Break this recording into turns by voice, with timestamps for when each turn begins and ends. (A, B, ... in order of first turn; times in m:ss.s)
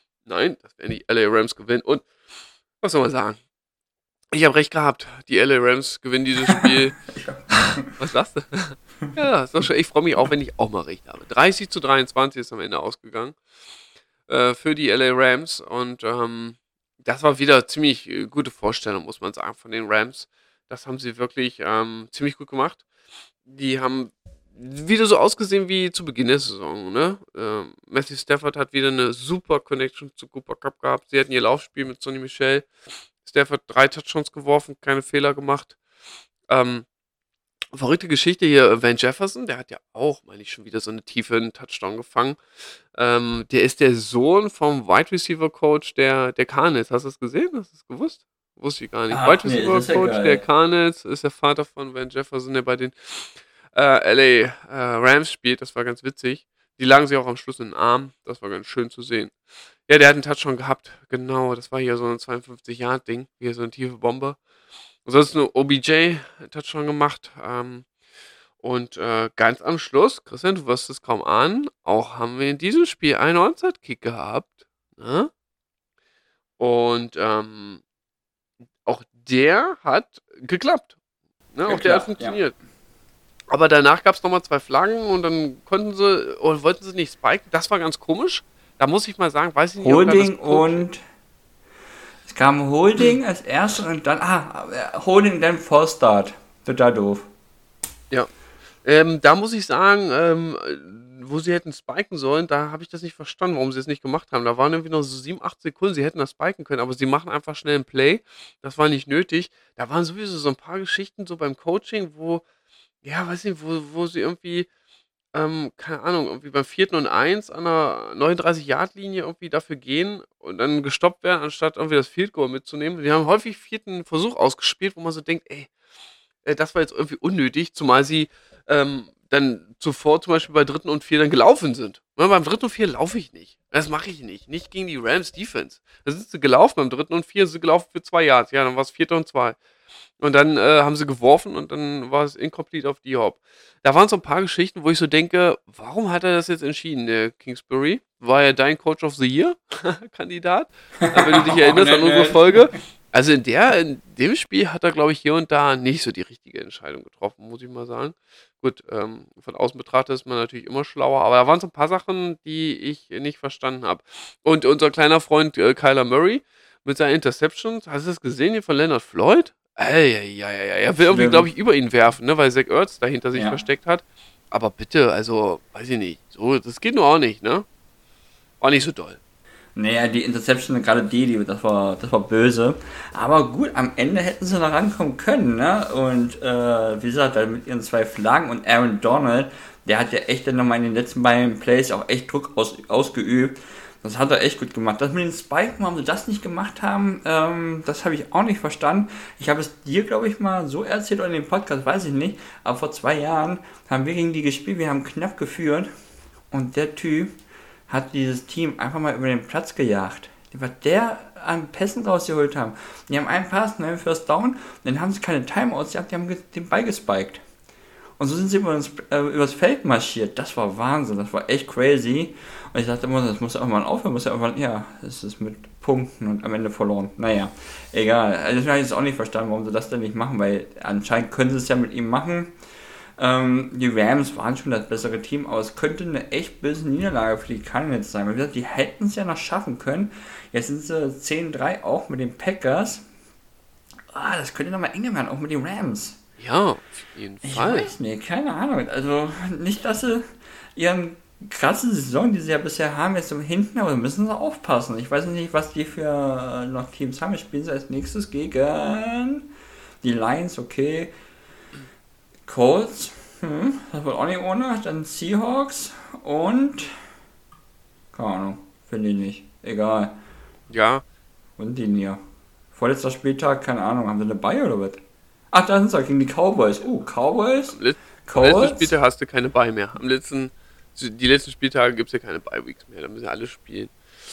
0:00.2-0:02.1 A
0:02.8-0:03.4 A
0:04.3-0:07.0 A
0:06.5-0:07.9 B
0:07.6-0:13.4 A
0:14.3-0:22.8 A
0:23.5-0:32.7 A
0:33.2-0:35.8 A
0:36.5-0:36.8 A
0:37.7-0:42.4 A
0:42.9-0:59.3 A
0:49.1-0:50.4 B
0:59.9-1:04.4 A
1:05.0-1:07.9 A
1:08.6-1:15.3 A
1:16.6-1:17.8 A
1:18.8-1:20.9 A
1:21.5-1:22.5 A
1:21.6-1:22.4 B
1:23.5-1:30.8 A
1:29.8-1:31.0 B
1:32.2-1:37.3 B
1:38.8-1:52.4 A
1:53.0-1:54.7 A
1:55.3-2:05.7 A
2:06.4-2:19.6 A
2:20.2-2:57.7 A
2:31.0-2:32.7 B
2:51.0-2:51.5 B
2:53.3-2:53.6 B
2:58.6-2:59.2 A
2:59.8-3:25.9 B
3:26.5-3:27.3 B
3:27.9-3:37.4 B
3:38.2-3:52.5 B
3:53.2-4:03.0 B
4:04.1-4:06.2 B
4:06.4-4:07.9 A
4:07.4-4:10.2 B
4:10.8-4:19.5 B
4:20.0-4:21.1 B
4:22.4-4:27.0 B
4:28.1-4:30.2 B
4:30.7-4:31.0 A
4:31.6-4:32.2 B
4:32.7-4:38.9 B
4:37.7-4:43.9 A